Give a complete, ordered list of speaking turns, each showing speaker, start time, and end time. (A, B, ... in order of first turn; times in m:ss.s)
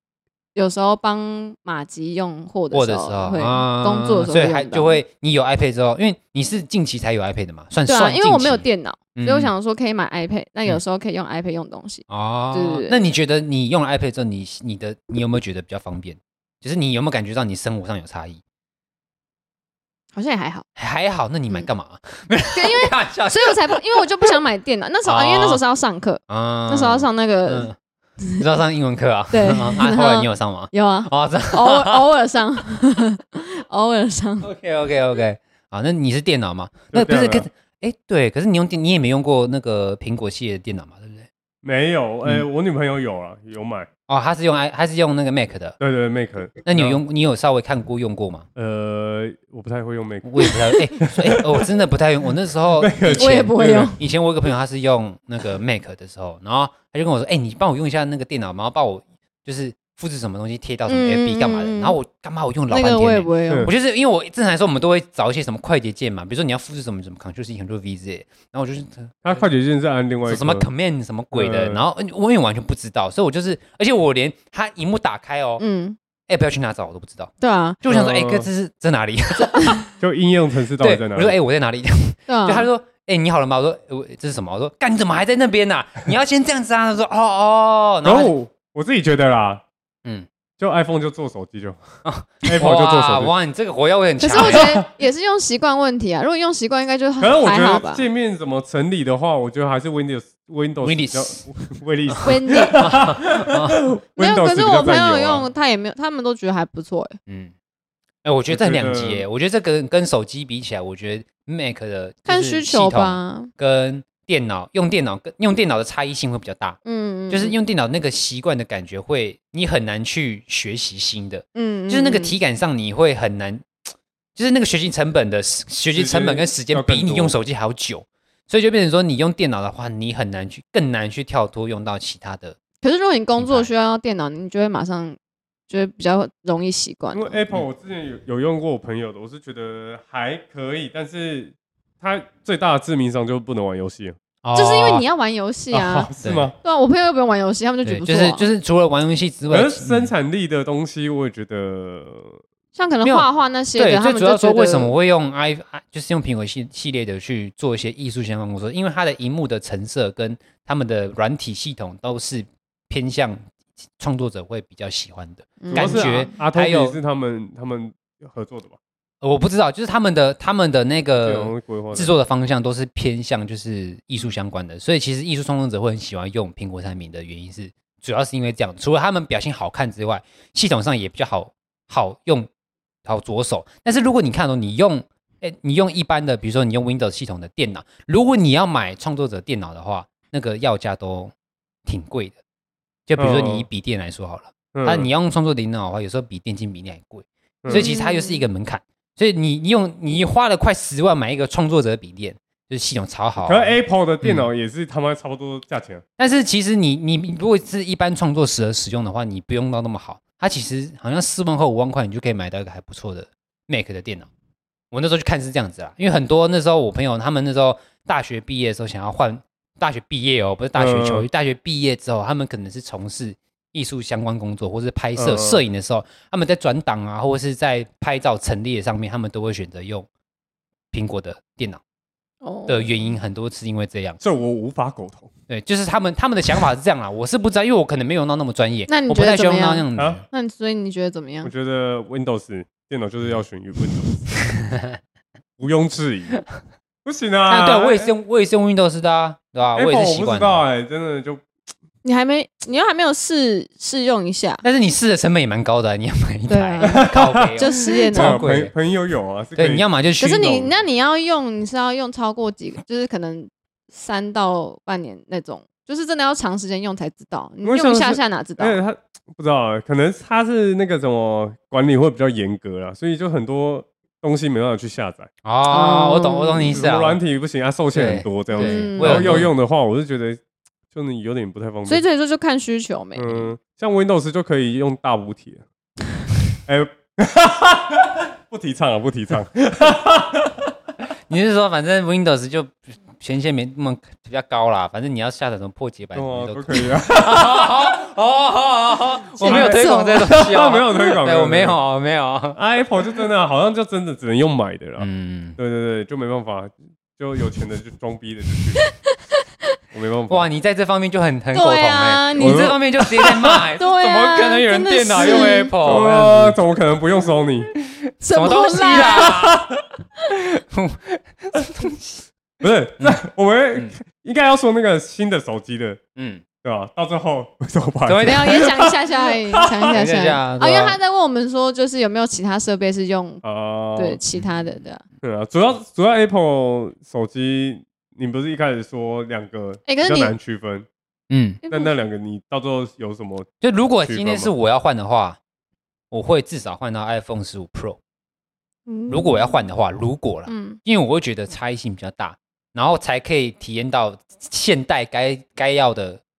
0:00.5-0:05.0 A
0:02.7-0:09.5 B
0:07.9-0:13.0 A
0:12.1-0:18.4 B
0:20.1-0:20.6 A
0:20.8-0:24.3 B
0:22.5-0:27.7 A
0:25.0-0:25.6 B
0:26.3-0:27.7 B
0:28.4-0:32.0 B
0:29.3-0:34.5 A
0:34.4-0:41.3 B
0:36.9-0:37.5 C
0:41.6-0:43.9 C
0:44.1-0:45.8 B
0:45.8-0:47.0 C
0:46.6-0:48.4 B
0:48.6-0:51.6 C
0:50.2-1:09.4 B
0:52.8-0:53.9 C
0:53.1-0:54.0 A
1:00.9-1:02.0 A
1:02.7-1:03.7 A
1:09.2-1:10.7 C
1:10.2-1:15.6 B
1:11.3-1:11.8 C
1:15.6-1:16.0 A
1:16.3-1:19.8 B
1:17.4-1:17.8 A
1:17.9-1:18.5 C
1:20.0-1:21.4 C
1:20.8-1:28.3 B
1:22.3-1:22.7 A
1:28.0-1:29.6 C
1:30.6-1:31.8 C
1:32.0-1:34.8 B
1:32.4-1:33.3 C
1:34.2-1:38.0 A
1:34.4-1:34.9 C
1:37.2-1:45.5 C
1:40.8-1:41.4 B
1:42.1-1:43.8 B
1:42.2-1:42.9 A
1:44.2-1:47.2 A
1:47.3-1:47.5 B
1:48.2-1:56.8 B
1:48.5-1:49.2 C
1:52.2-1:53.5 A
1:56.8-1:57.6 A
1:57.3-2:03.8 B
2:01.5-2:02.3 A
2:04.3-2:12.6 B
2:05.9-2:07.4 C
2:12.8-2:15.2 A
2:13.4-2:13.7 B
2:15.7-2:17.4 A
2:17.1-2:24.2 C
2:24.4-2:25.0 B
2:24.5-2:26.1 A
2:25.7-2:26.5 C
2:26.2-2:26.5 B
2:26.6-2:28.4 A
2:27.8-2:30.1 B
2:29.5-2:32.4 C
2:32.7-2:34.9 A
2:33.0-2:43.4 B
2:44.0-2:47.0 B
2:45.6-2:46.3 A
2:45.7-2:48.8 C
2:49.2-3:02.5 B
2:51.2-2:52.1 C
3:03.0-3:11.3 B
3:11.8-3:12.4 B
3:13.1-3:24.5 B
3:13.2-3:13.7 C
3:14.7-3:15.1 C
3:17.6-3:17.9 C
3:17.7-3:18.4 A
3:23.4-3:26.0 C
3:26.2-3:34.3 B
3:34.9-3:50.1 B
3:40.7-3:41.3 C
3:45.2-3:45.6 C
3:50.9-3:51.8 B
3:52.4-3:53.1 A
3:52.7-3:54.2 B
3:54.2-3:55.3 C
3:55.5-4:00.2 B
3:58.9-4:01.5 A
4:00.0-4:00.2 C
4:01.4-4:04.3 C
4:05.6-4:06.4 C
4:07.0-4:08.1 C
4:07.5-4:10.6 B
4:09.7-4:11.4 C
4:12.0-4:14.6 A
4:14.6-4:18.7 B
4:16.5-4:18.4 A
4:16.8-4:19.8 C
4:19.6-4:20.7 B
4:20.2-4:28.8 A
4:27.6-4:35.3 C
4:35.4-4:37.2 B
4:35.7-4:36.7 A
4:36.7-4:40.4 C
4:37.9-4:39.5 B
4:38.5-4:39.4 A
4:40.9-4:42.0 C
4:41.8-4:43.5 A
4:43.1-4:45.6 C
4:46.6-4:50.7 C
4:51.3-5:02.6 B
4:56.1-4:57.7 C
4:59.4-5:00.4 A
4:59.4-5:01.8 C
5:02.5-5:08.8 C
5:05.0-5:05.6 B
5:09.9-5:10.4 C
5:10.3-5:16.6 B
5:11.5-5:12.8 A
5:12.4-5:13.3 C
5:13.8-5:15.7 A
5:15.2-5:17.7 C
5:18.2-5:19.5 A
5:18.3-5:19.6 B
5:20.5-5:22.2 B
5:22.6-5:26.0 C
5:26.2-5:26.4 B
5:26.6-5:30.0 C
5:28.0-5:28.6 B
5:28.2-5:33.4 A
5:29.9-5:31.0 B
5:33.4-5:34.2 C
5:34.0-5:35.0 A
5:35.2-5:40.9 C
5:39.9-5:40.3 A
5:41.3-5:41.6 B
5:41.6-5:41.9 A
5:41.7-5:43.5 C
5:43.6-5:45.4 B
5:44.0-5:44.5 C
5:46.1-5:48.0 B
5:48.9-5:49.6 A
5:49.1-5:56.2 B
5:50.5-5:50.8 A